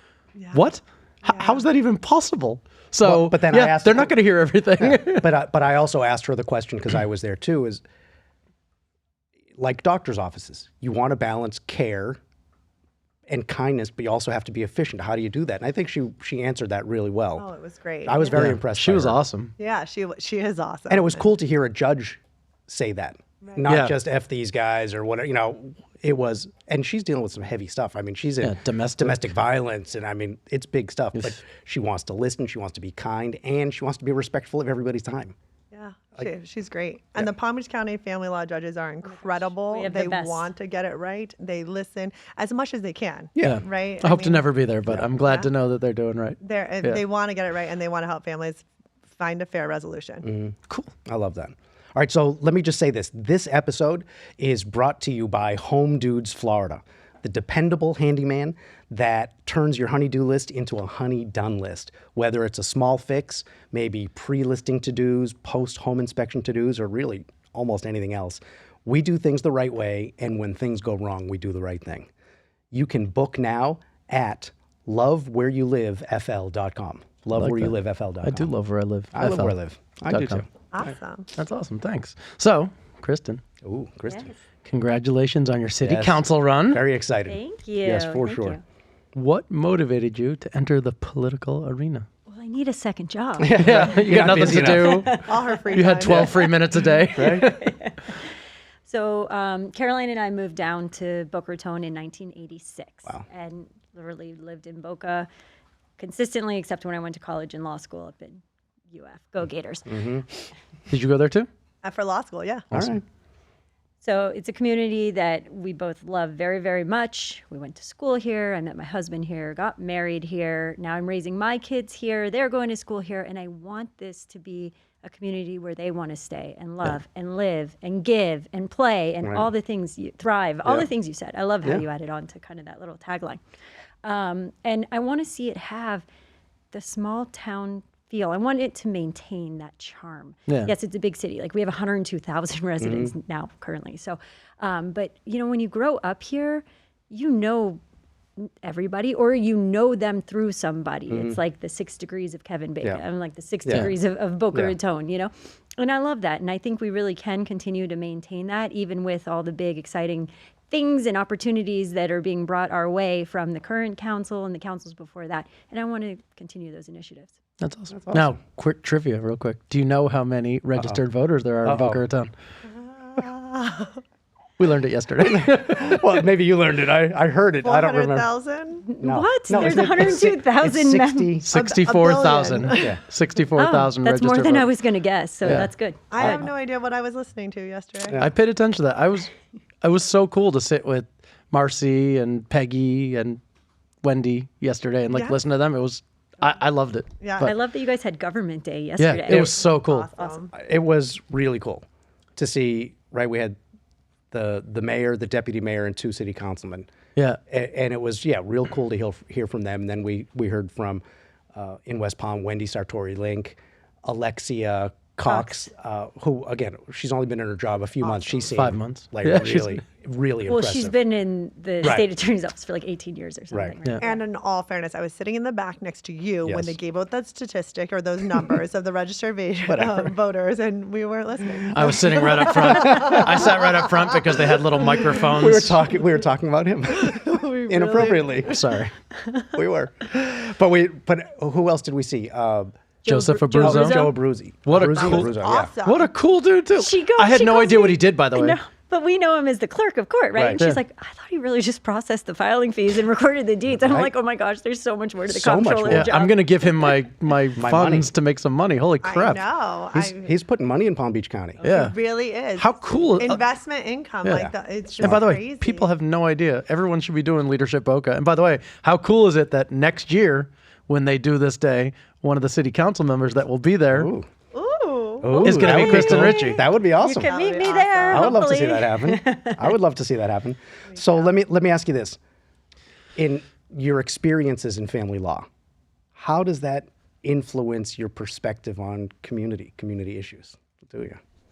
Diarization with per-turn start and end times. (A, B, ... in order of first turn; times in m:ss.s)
0:00.4-0:00.6 A
0:00.5-0:05.3 B
0:01.2-0:01.6 A
0:03.0-0:04.1 C
0:04.8-0:07.8 C
0:09.6-0:12.2 C
0:13.3-0:17.5 C
0:17.4-0:18.5 A
0:18.0-0:19.2 C
0:18.3-0:19.5 B
0:19.6-0:21.2 A
0:20.9-0:35.3 C
0:23.7-0:24.0 B
0:28.4-0:29.2 B
0:31.1-0:31.4 B
0:35.7-0:44.5 A
0:39.1-0:40.5 D
0:43.4-0:43.6 C
0:43.4-0:47.0 B
0:45.2-0:45.5 A
0:46.4-0:50.2 A
0:50.2-0:50.6 C
0:51.1-1:12.1 C
1:12.7-1:18.5 C
1:17.4-1:19.6 B
1:19.1-1:20.4 C
1:20.1-1:20.4 B
1:20.7-1:21.3 A
1:21.4-1:23.4 B
1:23.6-1:24.3 C
1:24.1-1:24.3 D
1:24.6-1:26.8 B
1:25.8-1:28.6 C
1:27.2-1:28.6 D
1:29.1-1:32.0 B
1:32.3-1:34.1 D
1:33.4-1:35.1 C
1:33.6-1:37.7 B
1:34.7-1:35.5 D
1:35.2-1:36.6 A
1:36.0-1:36.6 D
1:37.1-1:37.5 C
1:37.2-1:38.3 D
1:38.8-1:45.3 D
1:46.0-1:50.0 D
1:49.9-1:50.2 C
1:50.9-1:51.5 B
1:51.8-1:52.7 A
1:52.7-1:53.0 B
1:52.7-1:53.0 C
1:54.0-2:13.4 D
2:09.2-2:09.5 C
2:14.0-2:16.0 D
2:16.7-2:27.8 D
2:22.8-2:23.1 C
2:28.4-2:47.4 D
2:31.1-2:31.4 C
2:33.7-2:33.9 C
2:47.6-2:52.3 B
2:47.9-2:48.4 C
2:51.6-2:52.0 C
2:52.7-2:54.0 A
2:54.6-2:56.0 B
2:55.2-2:58.3 C
2:57.6-2:58.8 A
2:58.8-3:01.3 D
2:59.0-3:01.5 C
2:59.6-3:00.1 A
3:01.4-3:04.7 B
3:01.5-3:02.9 A
3:02.7-3:03.0 C
3:03.5-3:06.4 D
3:05.4-3:05.7 B
3:06.1-3:08.2 A
3:06.2-3:06.5 C
3:08.2-3:09.3 B
3:09.8-3:13.4 B
3:14.0-3:17.5 B
3:15.1-3:15.4 A
3:17.2-3:17.5 A
3:17.4-3:19.6 D
3:19.0-3:20.1 B
3:19.3-3:20.5 A
3:20.5-3:21.8 C
3:22.4-3:23.6 C
3:24.3-3:26.9 C
3:27.5-3:31.0 C
3:31.5-3:41.0 C
3:35.3-3:35.6 D
3:38.0-3:38.4 A
3:38.5-3:39.8 B
3:40.5-3:44.2 D
3:41.8-3:42.1 C
3:44.0-3:53.8 A
3:46.4-3:46.8 C
3:49.7-3:50.1 C
3:51.7-3:55.8 B
3:51.9-3:53.4 C
3:55.3-3:58.6 C
3:57.0-3:58.5 A
3:58.4-3:58.9 B
3:59.4-4:02.7 C
4:03.0-4:04.2 D
4:03.1-4:04.1 B
4:03.6-4:05.7 C
4:04.7-4:08.6 B
4:05.1-4:06.1 A
4:06.8-4:17.1 D
4:10.3-4:10.6 C
4:13.7-4:14.1 C
4:15.3-4:16.1 C
4:15.9-4:19.5 B
4:17.6-4:18.1 C
4:19.0-4:20.3 A
4:19.9-4:21.6 C
4:21.6-4:22.0 B
4:21.6-4:25.9 A
4:22.6-4:23.4 B
4:24.2-4:34.1 B
4:33.9-4:34.3 C
4:34.5-4:35.5 A
4:35.2-4:37.3 C
4:35.4-4:36.6 B
4:36.0-4:39.7 D
4:37.2-4:38.4 A
4:38.1-4:42.2 C
4:43.2-4:45.5 C
4:46.2-4:51.2 C